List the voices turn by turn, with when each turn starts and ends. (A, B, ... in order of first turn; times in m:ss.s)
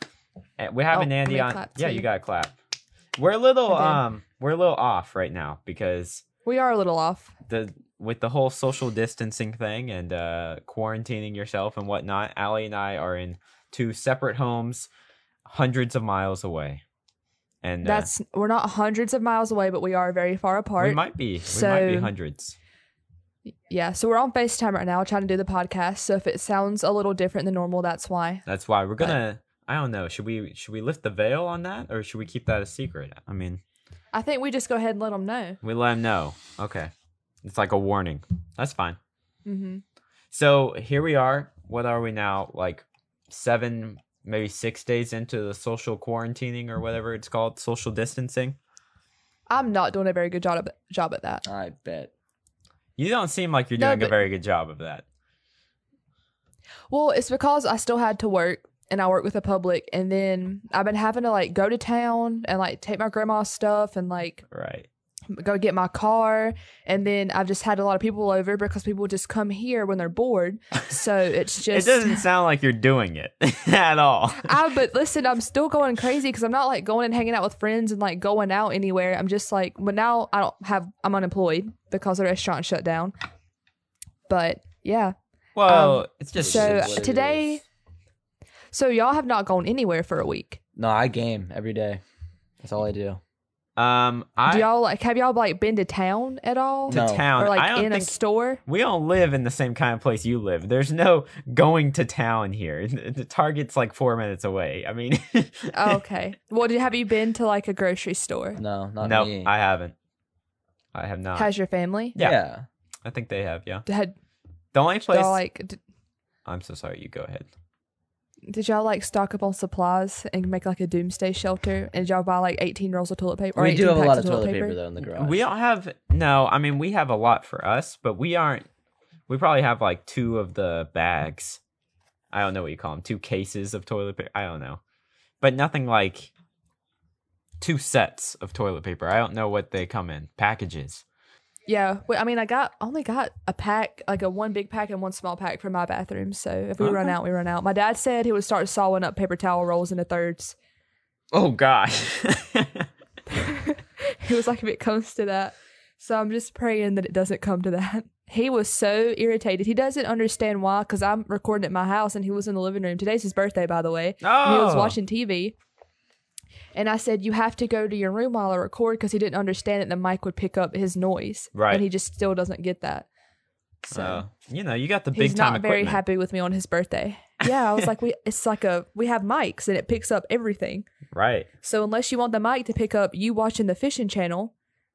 0:00.6-0:02.5 A
0:00.9-0:02.0 B
0:03.2-0:06.2 A
0:03.7-0:04.0 B
0:06.4-0:07.3 B
0:07.5-0:14.9 A
0:15.4-0:16.8 A
0:17.6-0:18.1 A
0:17.8-0:22.1 B
0:20.8-0:22.6 A
0:23.7-0:28.4 B
0:28.4-0:33.6 A
0:34.1-0:35.6 B
0:35.6-0:36.9 A
0:37.4-0:39.0 A
0:39.4-0:39.8 B
0:40.3-0:48.6 A
0:49.5-0:51.4 B
0:51.4-0:52.1 C
0:53.0-0:55.0 A
0:53.8-0:54.2 B
0:56.9-1:04.4 B
1:04.5-1:04.9 A
1:05.3-1:12.2 B
1:11.7-1:14.7 A
1:14.4-1:23.1 B
1:24.3-1:25.1 B
1:25.6-1:27.0 A
1:25.7-1:27.6 B
1:26.4-1:27.6 C
1:28.7-1:30.6 B
1:30.8-1:32.0 C
1:32.6-1:33.2 C
1:33.8-1:34.7 A
1:34.5-1:38.6 B
1:36.9-1:46.0 A
1:36.9-1:37.3 C
1:45.7-1:48.6 B
1:48.6-1:49.5 C
1:49.0-1:49.9 A
1:50.9-1:51.5 A
1:51.3-1:52.2 B
1:52.2-1:52.6 C
1:53.0-1:53.8 A
1:53.8-1:54.1 B
1:54.7-1:55.4 A
1:55.1-1:55.8 B
1:56.4-1:57.5 A
1:58.5-2:04.8 B
2:03.5-2:05.4 C
2:05.1-2:08.6 A
2:09.3-2:11.6 A
2:12.3-2:14.8 A
2:15.4-2:16.3 A
2:17.6-2:21.0 A
2:21.7-2:30.5 B
2:26.8-2:27.2 A
2:31.3-2:32.8 A
2:33.3-2:45.5 B
2:44.2-2:45.0 A
2:46.7-2:53.1 B
2:51.5-2:51.8 A
2:53.8-2:54.2 B
2:53.9-2:56.0 A
2:55.1-3:00.9 B
3:01.1-3:01.5 A
3:01.6-3:04.5 B